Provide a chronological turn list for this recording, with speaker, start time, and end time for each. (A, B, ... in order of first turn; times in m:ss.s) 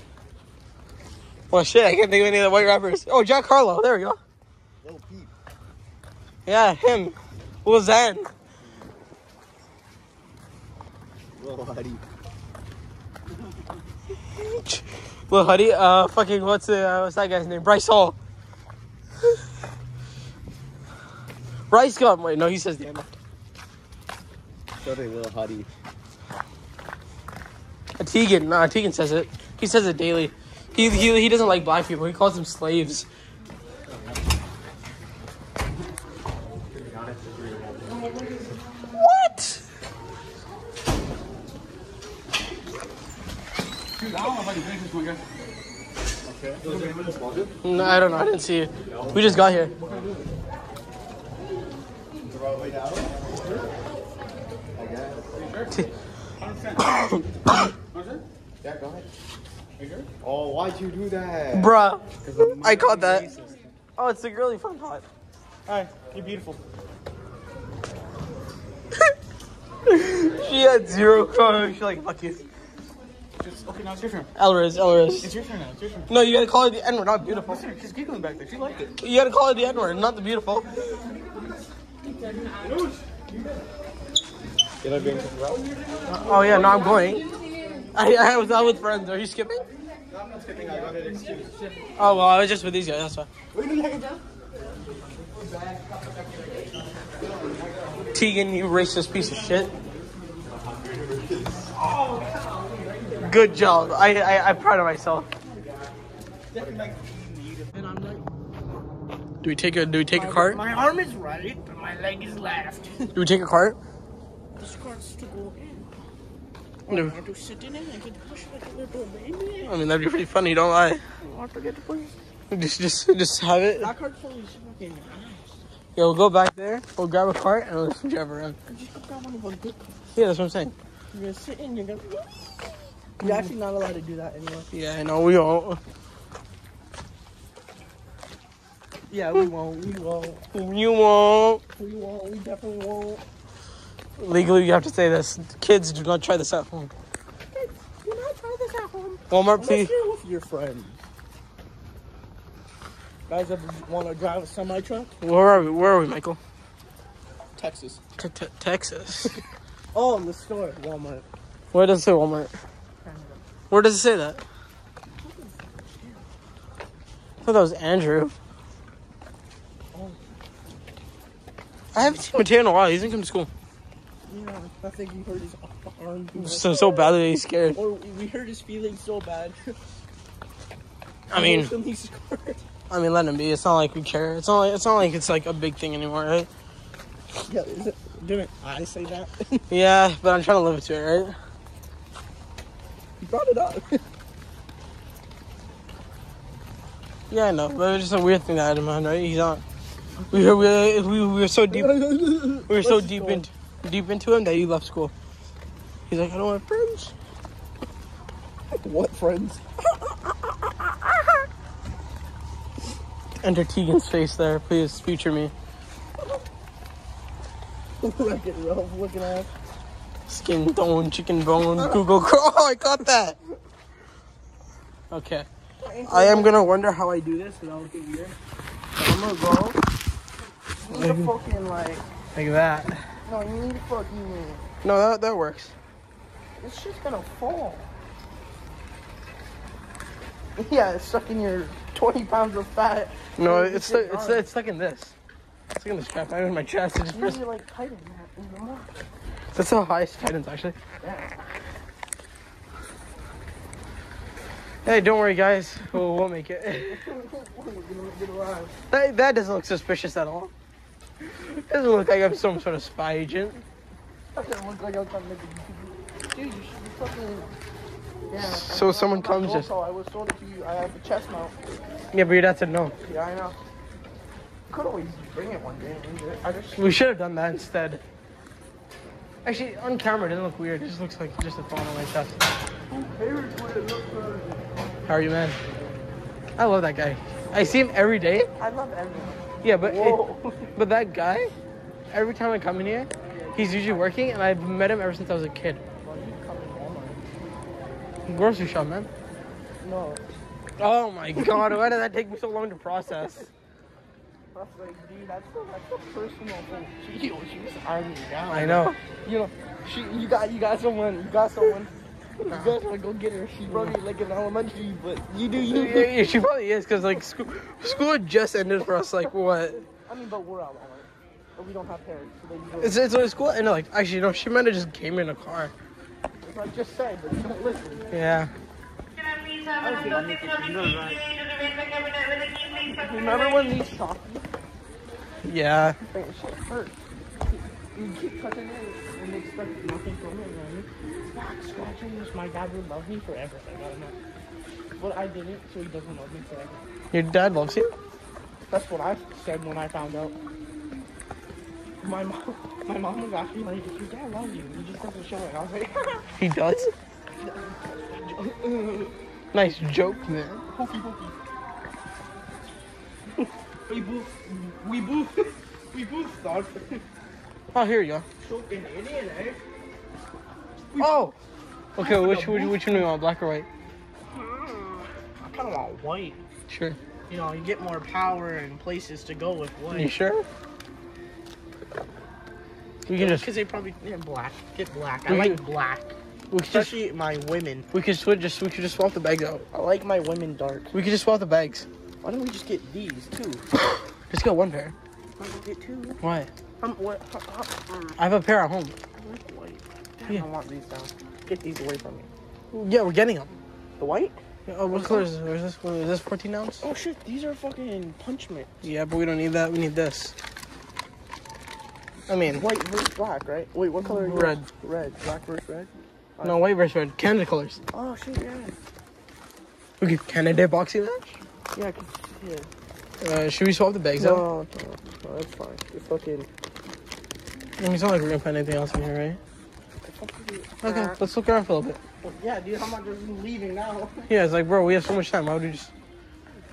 0:01.5-0:04.2 A
0:04.8-0:05.3 B
0:06.5-0:08.3 A
0:08.6-0:08.9 B
0:11.4-0:12.0 B
0:14.4-0:18.2 A
0:21.7-0:23.2 A
0:24.8-0:25.7 B
0:28.0-0:33.1 A
0:39.0-0:39.6 A
0:44.0-0:45.2 C
0:46.2-0:47.6 B
0:46.6-0:47.2 C
0:47.6-0:49.7 A
0:48.9-0:49.6 B
0:49.8-0:50.1 C
0:52.2-0:53.3 B
0:54.8-0:55.5 B
0:55.3-0:55.8 C
0:56.4-0:57.2 C
0:56.9-0:57.7 A
0:57.9-0:58.2 C
0:58.6-0:59.1 B
0:59.8-1:00.1 C
1:00.2-1:01.7 B
1:01.5-1:03.3 A
1:02.2-1:03.8 C
1:04.0-1:05.1 A
1:05.7-1:06.6 C
1:09.9-1:12.4 A
1:13.4-1:14.3 C
1:14.4-1:15.3 A
1:15.2-1:16.1 C
1:16.1-1:17.7 A
1:17.2-1:19.0 C
1:19.0-1:20.8 A
1:22.5-1:23.4 C
1:24.8-1:25.6 B
1:26.1-1:27.2 A
1:26.1-1:27.1 C
1:26.5-1:27.7 D
1:27.9-1:29.6 A
1:30.1-1:31.6 B
1:30.5-1:31.7 C
1:32.0-1:33.3 A
1:33.5-1:33.8 B
1:36.3-1:38.2 B
1:38.1-1:39.7 A
1:40.5-1:41.7 B
1:41.8-1:43.3 C
1:42.6-1:43.2 D
1:43.2-1:45.3 A
1:46.5-1:47.0 B
1:46.5-1:47.7 C
1:47.7-1:48.3 D
1:49.4-1:50.6 A
1:50.1-1:53.1 D
1:53.2-1:53.8 A
1:54.6-1:55.9 D
1:56.9-1:59.7 D
1:59.6-2:01.0 A
2:01.2-2:02.2 D
2:02.5-2:03.9 A
2:03.8-2:05.6 D
2:06.0-2:08.6 A
2:08.7-2:09.8 D
2:10.2-2:10.7 A
2:11.1-2:14.7 D
2:13.2-2:13.5 A
2:14.7-2:15.8 A
2:19.1-2:20.4 D
2:20.5-2:21.6 A
2:21.8-2:23.2 D
2:24.2-2:26.9 A
2:27.5-2:31.0 D
2:29.3-2:29.9 A
2:33.3-2:35.2 D
2:35.2-2:36.4 A
2:37.6-2:38.0 D
2:38.2-2:39.4 A
2:39.9-2:41.3 D
2:41.7-2:42.6 A
2:43.0-2:43.4 D
2:43.7-2:44.4 A
2:45.2-2:46.2 D
2:47.4-2:48.3 A
2:49.9-2:50.2 D
2:51.9-2:53.5 A
2:54.3-2:57.2 D
2:56.3-2:57.8 A
2:57.7-2:59.8 D
3:01.3-3:01.7 A
3:01.3-3:02.6 D
3:02.9-3:06.5 A
3:07.5-3:09.6 D
3:09.7-3:11.4 A
3:13.2-3:14.0 D
3:17.3-3:19.6 A
3:20.3-3:25.1 A
3:21.7-3:23.5 D
3:26.1-3:27.1 A
3:28.7-3:31.2 D
3:33.4-3:35.5 A
3:38.0-3:39.5 D
3:40.3-3:43.4 A
3:45.1-3:45.5 A
3:45.8-3:46.6 D
3:46.1-3:48.3 A
3:49.0-3:49.8 A
3:50.8-3:52.1 D
3:50.9-3:51.3 A
3:52.4-3:53.0 A
3:53.3-3:54.7 D
3:54.8-3:55.8 A
3:56.6-3:57.9 D
4:00.6-4:04.5 D
4:03.4-4:05.1 A
4:05.7-4:07.4 A
4:07.1-4:08.9 D
4:09.6-4:10.8 A
4:11.0-4:11.4 D
4:14.8-4:17.0 A
4:17.0-4:18.7 D
4:18.9-4:20.5 A
4:21.5-4:23.6 A
4:24.3-4:27.5 D
4:28.3-4:31.6 D
4:28.3-4:29.7 A
4:32.1-4:33.0 A
4:33.0-4:33.6 D
4:34.7-4:37.0 D
4:36.8-4:38.0 A
4:39.4-4:42.4 A
4:42.9-4:44.6 D
4:45.1-4:45.6 A
4:46.6-4:48.5 A
4:48.6-4:50.7 D
4:49.6-4:50.2 A
4:50.8-4:51.5 A
4:52.1-4:55.8 A
4:53.3-4:54.2 D
4:56.0-4:57.2 D
4:58.3-4:59.1 A
4:59.8-5:00.2 D
5:00.8-5:03.5 A
5:04.5-5:16.2 D
5:08.5-5:09.0 A
5:12.5-5:12.8 A
5:13.7-5:14.0 A
5:15.7-5:19.8 A
5:20.1-5:23.1 D
5:22.8-5:25.7 A
5:26.4-5:28.1 D
5:28.1-5:28.5 A
5:29.8-5:30.3 D
5:29.9-5:31.4 C
5:32.9-5:34.5 D
5:35.4-5:36.0 A
5:36.0-5:37.0 D
5:37.9-5:44.2 D
5:45.0-5:46.8 D
5:47.1-5:47.9 A
5:48.7-5:50.4 D
5:52.0-5:56.3 D
5:56.4-5:56.9 A
5:57.4-5:59.1 D
5:59.5-6:00.6 A
6:00.7-6:01.3 D
6:03.9-6:07.0 D
6:07.7-6:08.3 A
6:08.4-6:09.6 D
6:10.9-6:11.3 D
6:11.0-6:11.4 A
6:12.0-6:13.7 A
6:12.0-6:13.1 D
6:14.3-6:16.4 D
6:16.7-6:17.0 A
6:17.3-6:20.1 D
6:19.9-6:20.5 A
6:23.1-6:23.5 A
6:23.1-6:26.1 D
6:25.3-6:25.6 A
6:26.5-6:27.0 A
6:26.7-6:27.9 D
6:27.9-6:29.6 A
6:29.7-6:30.9 D
6:30.9-6:31.9 A
6:32.2-6:33.7 D
6:34.3-6:35.0 A
6:35.4-6:36.2 D
6:36.2-6:36.5 A
6:36.8-6:38.2 D
6:38.2-6:39.0 A
6:39.2-6:42.3 D
6:42.7-6:43.6 A
6:44.0-6:45.3 D
6:44.7-6:46.8 A
6:46.8-6:48.9 D
6:48.8-6:50.3 A
6:52.3-6:52.7 A
6:52.5-6:56.6 D
6:54.0-6:54.7 A
6:56.4-6:57.8 A
6:57.9-6:58.8 D
7:00.0-7:01.4 A
7:01.7-7:02.7 D
7:03.2-7:04.4 A
7:04.2-7:06.5 D
7:07.8-7:09.4 A
7:10.0-7:11.2 D
7:10.8-7:12.0 A
7:12.2-7:14.3 D
7:14.3-7:15.9 A